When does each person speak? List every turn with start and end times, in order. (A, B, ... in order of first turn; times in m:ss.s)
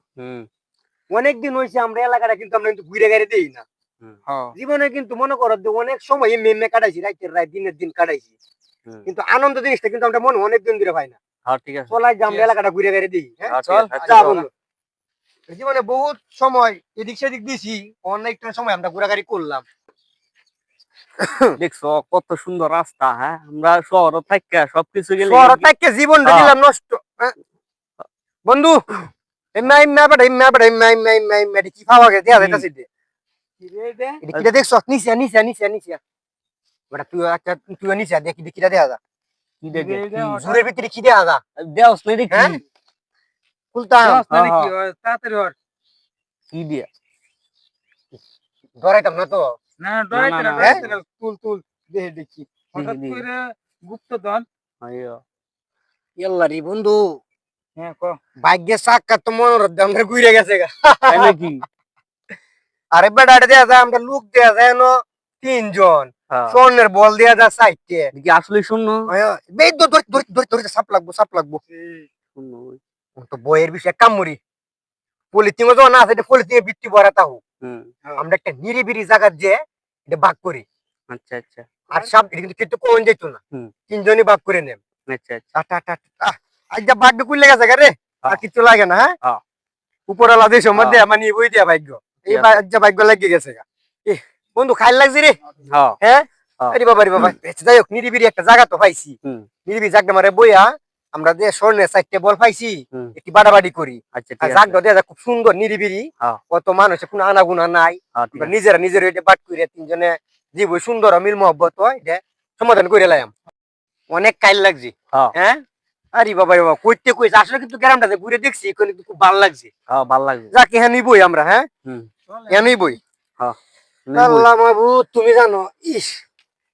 0:00.2-0:00.5 A
0:01.1-0:03.6 B
0:04.3-0:04.5 C
0:04.6-0:08.3 B
0:09.1-0:11.2 B
0:11.5-0:12.0 A
0:11.9-0:14.5 B
0:13.5-0:14.4 A
0:13.6-0:14.5 C
0:15.5-0:19.6 B
0:21.2-0:21.6 B
0:21.6-0:25.7 A
0:25.2-0:27.4 B
0:26.2-0:26.5 A
0:28.5-0:28.8 B
0:29.6-0:32.9 B
0:32.3-0:32.6 A
0:33.6-0:34.2 C
0:34.2-0:36.0 B
0:34.3-0:34.6 A
0:36.9-0:39.0 B
0:39.6-0:40.4 A
0:39.7-0:40.7 C
0:40.3-0:41.4 B
0:41.6-0:42.6 A
0:42.3-0:42.6 B
0:43.7-0:44.2 B
0:44.0-0:45.6 C
0:44.3-0:44.7 A
0:46.5-0:46.9 A
0:48.8-0:49.5 B
0:49.8-0:54.5 C
0:50.1-0:51.0 A
0:52.8-0:53.2 A
0:54.8-0:55.2 A
0:56.2-0:57.2 B
0:57.8-0:58.2 C
0:58.4-1:01.4 B
1:01.1-1:01.6 A
1:02.9-1:08.1 B
1:06.3-1:06.6 A
1:08.1-1:09.1 A
1:09.1-1:11.6 B
1:11.7-1:12.1 C
1:12.4-1:12.8 A
1:13.2-1:14.4 B
1:15.3-1:17.4 B
1:17.6-1:17.9 A
1:18.2-1:20.6 B
1:21.1-1:21.7 A
1:21.9-1:24.8 B
1:25.1-1:25.5 A
1:25.6-1:29.1 B
1:30.1-1:35.4 B
1:30.8-1:31.0 A
1:32.3-1:32.6 A
1:35.7-1:36.0 A
1:36.0-1:53.3 B
1:36.6-1:37.4 A
1:44.1-1:44.8 A
1:48.2-1:48.5 A
1:54.1-1:55.6 B
1:56.1-1:59.7 B
1:59.9-2:00.5 A
2:00.5-2:01.7 B
2:02.3-2:03.0 C
2:02.5-2:03.0 B
2:04.1-2:04.5 A
2:04.1-2:06.2 B